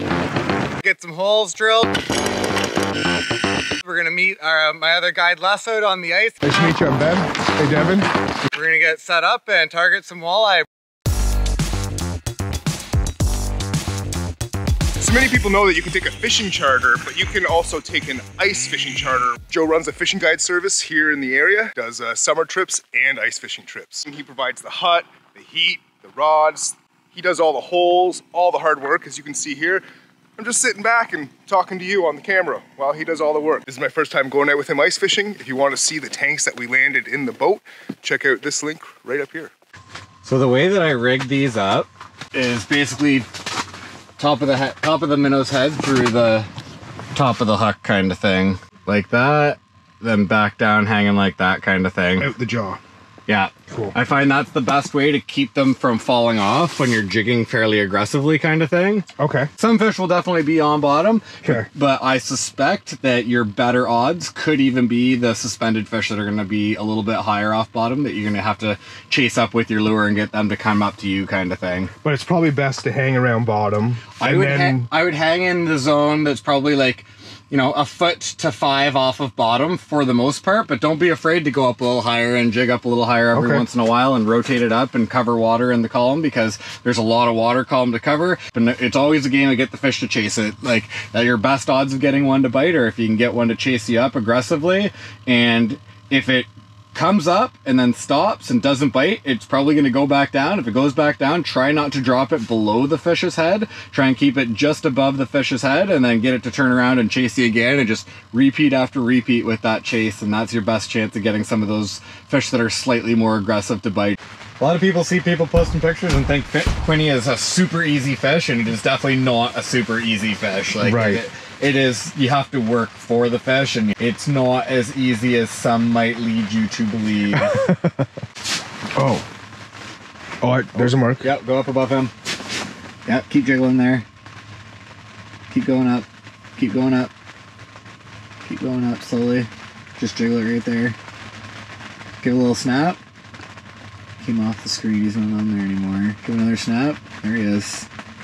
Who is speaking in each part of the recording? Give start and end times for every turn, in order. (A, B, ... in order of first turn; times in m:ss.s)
0:00.8-0:01.9 A
0:03.8-0:06.4 A
0:06.4-0:08.1 B
0:08.5-0:10.7 A
0:15.0-0:29.8 B
0:30.4-0:39.5 B
0:40.2-0:43.3 A
0:44.2-0:46.5 A
0:47.1-0:52.3 A
0:52.2-0:52.8 B
0:53.3-0:59.1 A
0:53.7-0:54.0 B
0:59.2-0:59.5 B
0:59.6-1:11.9 A
1:12.0-1:14.9 B
1:14.2-2:07.6 A
1:23.3-1:23.6 B
2:00.8-2:01.2 B
2:07.4-2:08.0 B
2:09.0-2:09.3 B
2:10.4-2:11.2 B
2:10.8-2:12.1 A
2:13.0-2:14.1 A
2:15.5-2:16.1 A
2:16.6-2:17.1 A
2:18.4-2:21.0 A
2:22.2-2:23.0 A
2:24.2-2:27.9 A